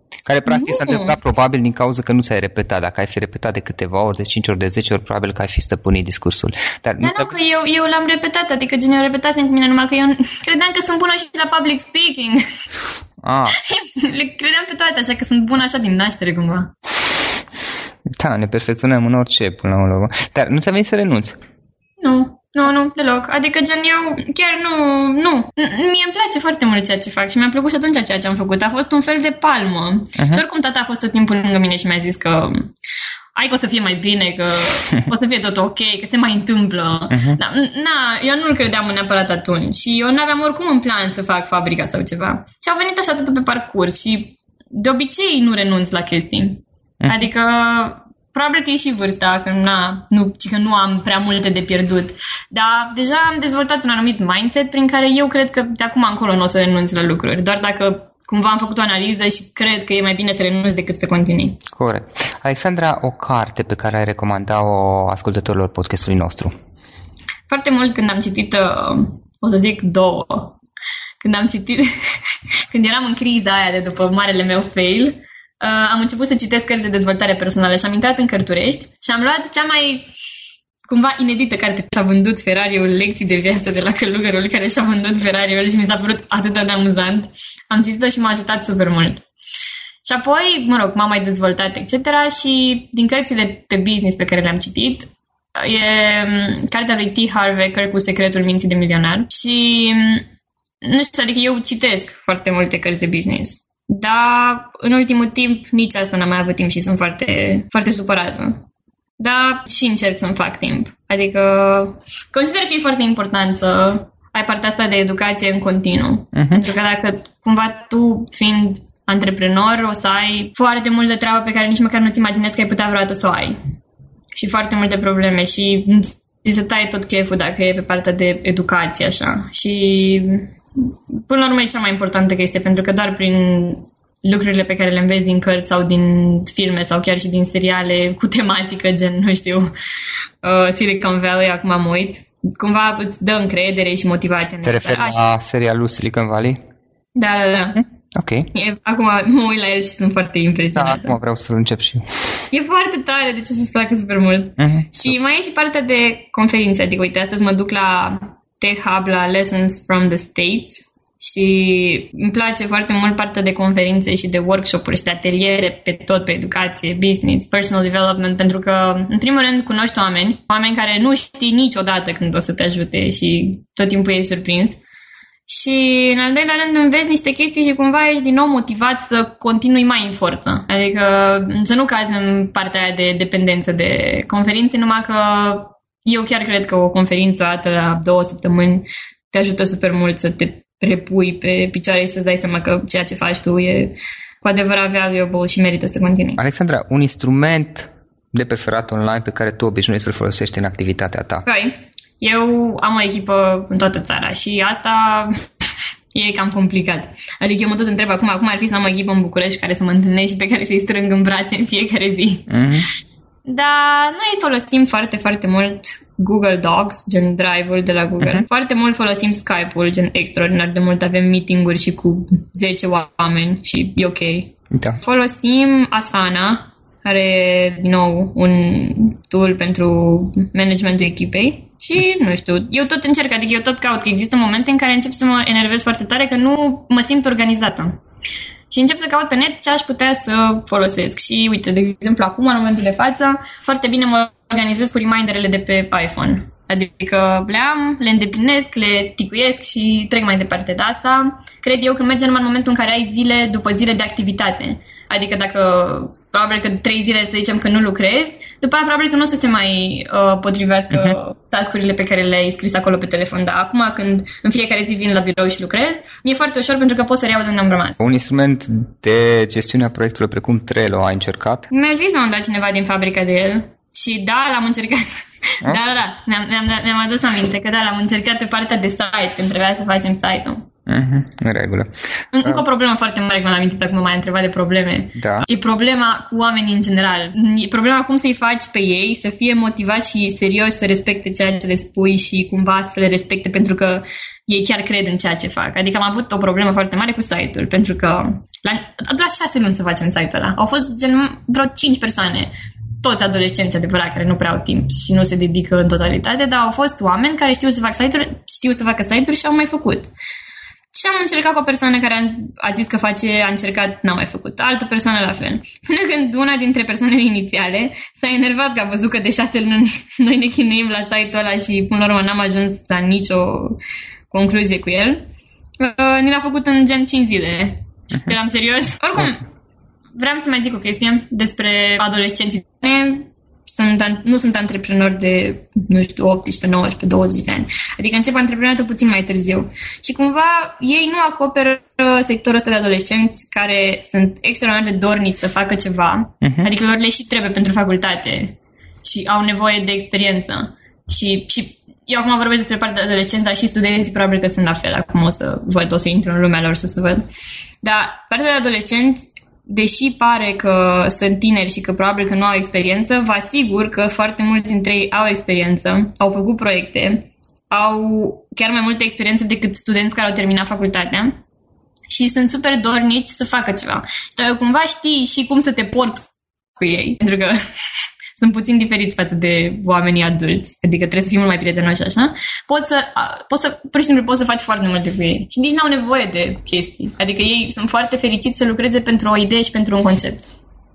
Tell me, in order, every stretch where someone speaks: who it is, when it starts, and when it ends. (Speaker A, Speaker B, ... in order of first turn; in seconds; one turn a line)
Speaker A: 0.2-7.3
Speaker B: 0.5-1.2
Speaker B: 7.0-12.4
Speaker A: 13.2-13.6
Speaker B: 13.5-16.7
Speaker A: 18.2-21.4
Speaker B: 22.0-32.7
Speaker A: 30.2-30.4
Speaker B: 33.3-61.6
Speaker A: 37.1-37.4
Speaker A: 47.0-47.3
Speaker A: 61.7-66.5
Speaker B: 67.5-70.6
Speaker B: 71.2-80.1
Speaker B: 80.8-89.2
Speaker B: 90.0-100.2
Speaker B: 100.8-108.6
Speaker B: 109.2-123.6
Speaker A: 116.3-116.7
Speaker B: 124.3-139.7
Speaker B: 140.4-145.2
Speaker A: 144.6-146.6
Speaker B: 147.1-147.8
Speaker A: 147.8-148.5
Speaker B: 148.5-151.1
Speaker A: 150.7-152.0
Speaker B: 152.5-174.8
Speaker A: 154.6-155.1
Speaker B: 175.5-196.4
Speaker A: 196.4-201.4
Speaker B: 201.4-205.4
Speaker B: 206.1-212.5
Speaker A: 212.5-212.9
Speaker B: 213.4-238.0
Speaker A: 224.7-225.0
Speaker B: 238.7-268.0
Speaker A: 268.0-271.7
Speaker B: 271.7-280.7
Speaker A: 280.9-281.9
Speaker B: 282.3-310.1
Speaker A: 285.2-285.5
Speaker B: 310.9-325.2
Speaker B: 325.8-329.4
Speaker B: 330.1-357.2
Speaker A: 346.4-346.7
Speaker B: 357.8-371.4
Speaker B: 372.1-377.6
Speaker B: 378.3-390.5